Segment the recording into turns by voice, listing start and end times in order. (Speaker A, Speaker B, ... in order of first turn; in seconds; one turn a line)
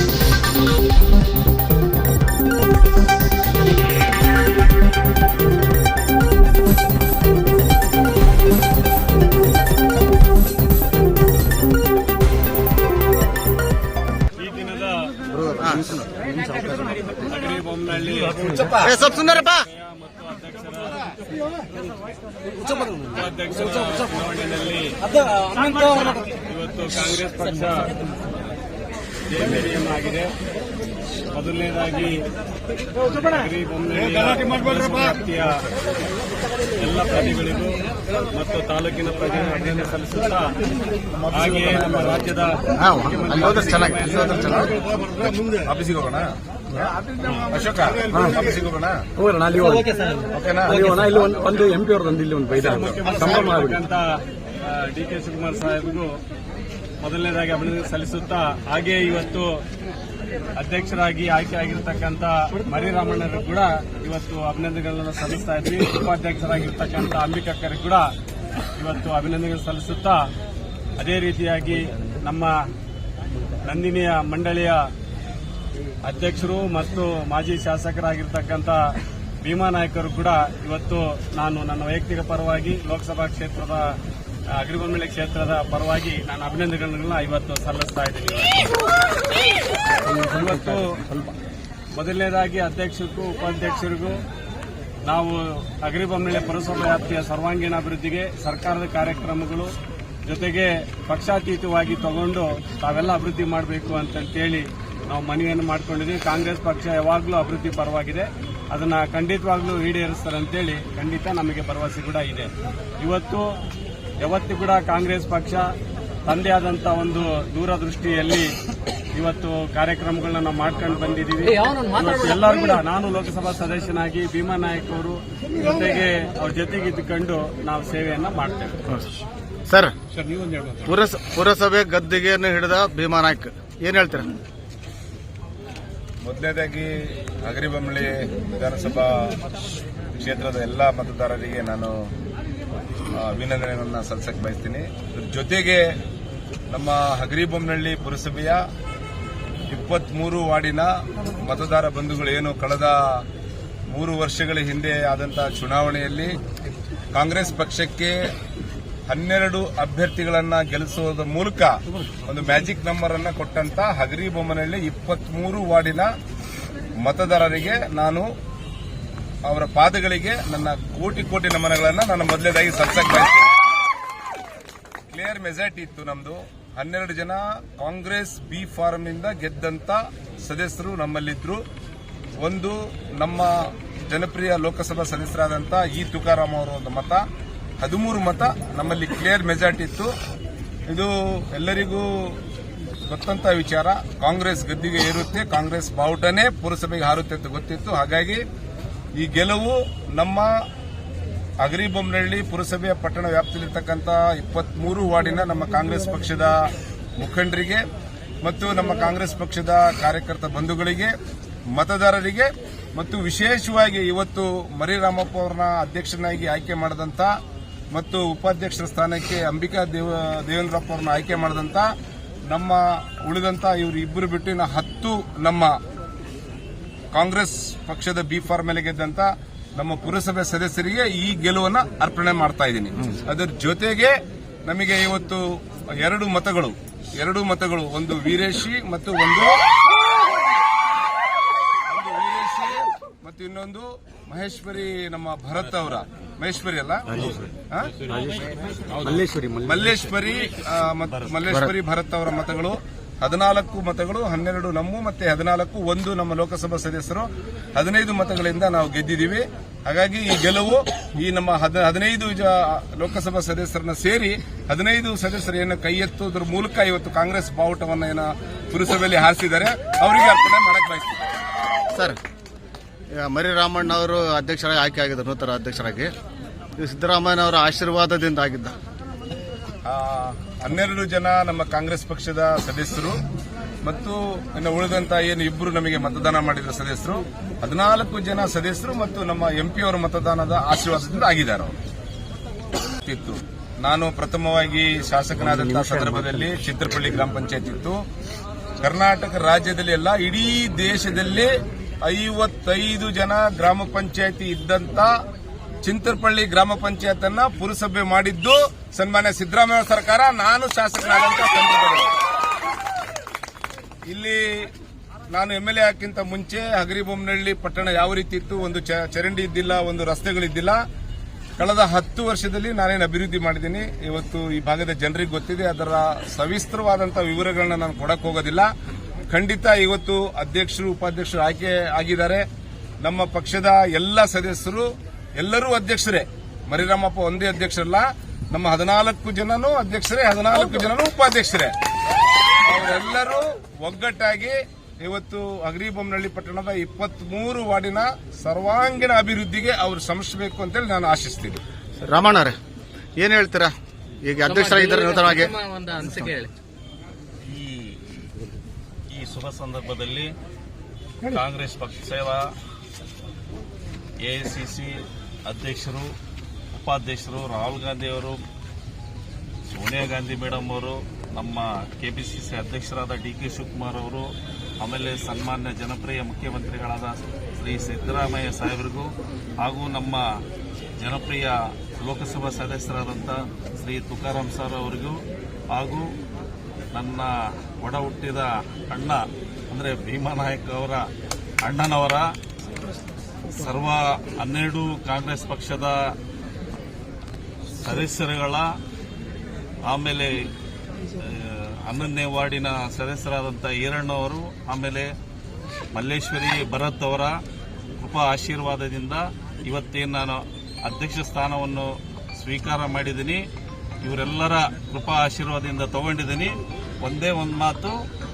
Speaker A: 14.4-15.1
Speaker B: 15.3-16.8
Speaker A: 17.2-21.1
Speaker B: 18.7-19.6
Speaker A: 23.0-28.0
Speaker A: 29.3-30.3
Speaker A: 31.3-32.2
Speaker A: 33.0-35.7
Speaker A: 36.8-40.5
Speaker C: 41.2-42.2
Speaker A: 41.3-44.7
Speaker B: 42.7-44.7
Speaker C: 45.3-46.3
Speaker C: 47.3-49.0
Speaker D: 48.1-48.4
Speaker D: 49.2-53.8
Speaker C: 50.3-51.0
Speaker A: 52.6-56.1
Speaker A: 57.0-59.6
Speaker A: 60.6-68.1
Speaker A: 68.7-70.2
Speaker A: 71.0-72.6
Speaker A: 73.6-74.9
Speaker A: 76.0-84.0
Speaker A: 84.5-88.7
Speaker D: 90.0-91.3
Speaker A: 90.2-91.0
Speaker A: 91.9-94.2
Speaker A: 95.1-99.8
Speaker A: 100.3-113.5
Speaker A: 114.2-115.7
Speaker A: 116.2-118.5
Speaker A: 119.1-128.8
Speaker B: 129.7-129.9
Speaker B: 130.8-134.3
Speaker C: 136.2-139.4
Speaker C: 140.2-142.1
Speaker C: 143.1-145.9
Speaker C: 146.7-148.6
Speaker C: 149.7-153.2
Speaker C: 153.9-156.4
Speaker C: 157.1-158.3
Speaker C: 159.1-166.1
Speaker C: 167.0-168.3
Speaker C: 169.5-173.5
Speaker C: 175.1-181.6
Speaker C: 182.4-187.2
Speaker C: 187.8-190.1
Speaker C: 190.9-192.4
Speaker C: 193.1-198.4
Speaker C: 199.2-200.5
Speaker C: 201.6-207.8
Speaker C: 208.4-211.1
Speaker C: 211.7-217.3
Speaker C: 217.9-221.9
Speaker C: 222.5-225.7
Speaker C: 227.1-234.1
Speaker C: 234.7-239.6
Speaker C: 241.9-247.9
Speaker D: 247.2-247.4
Speaker D: 248.1-248.5
Speaker E: 248.9-249.2
Speaker D: 249.0-250.0
Speaker C: 249.6-271.2
Speaker E: 251.1-251.4
Speaker B: 271.9-272.2
Speaker B: 273.1-276.1
Speaker B: 276.8-278.8
Speaker C: 279.9-283.2
Speaker C: 283.8-291.7
Speaker C: 293.0-298.0
Speaker C: 298.8-301.5
Speaker C: 302.0-305.1
Speaker C: 305.8-312.1
Speaker C: 314.1-314.7
Speaker C: 315.3-320.8
Speaker C: 321.6-328.7
Speaker C: 329.3-332.4
Speaker C: 333.0-341.7
Speaker C: 342.6-351.6
Speaker B: 352.0-352.6
Speaker B: 353.2-353.7
Speaker B: 354.2-356.3
Speaker F: 354.5-356.5
Speaker E: 357.4-358.0
Speaker E: 359.1-360.3
Speaker E: 361.2-362.5
Speaker E: 364.2-366.1
Speaker E: 366.7-368.4
Speaker E: 369.7-380.2
Speaker E: 381.0-385.2
Speaker E: 385.7-386.1
Speaker E: 386.9-391.1
Speaker E: 391.6-392.3
Speaker E: 393.5-396.1
Speaker E: 397.8-398.7
Speaker E: 399.9-400.5
Speaker E: 401.2-405.1
Speaker E: 405.9-407.4
Speaker E: 408.0-413.4
Speaker E: 414.0-418.0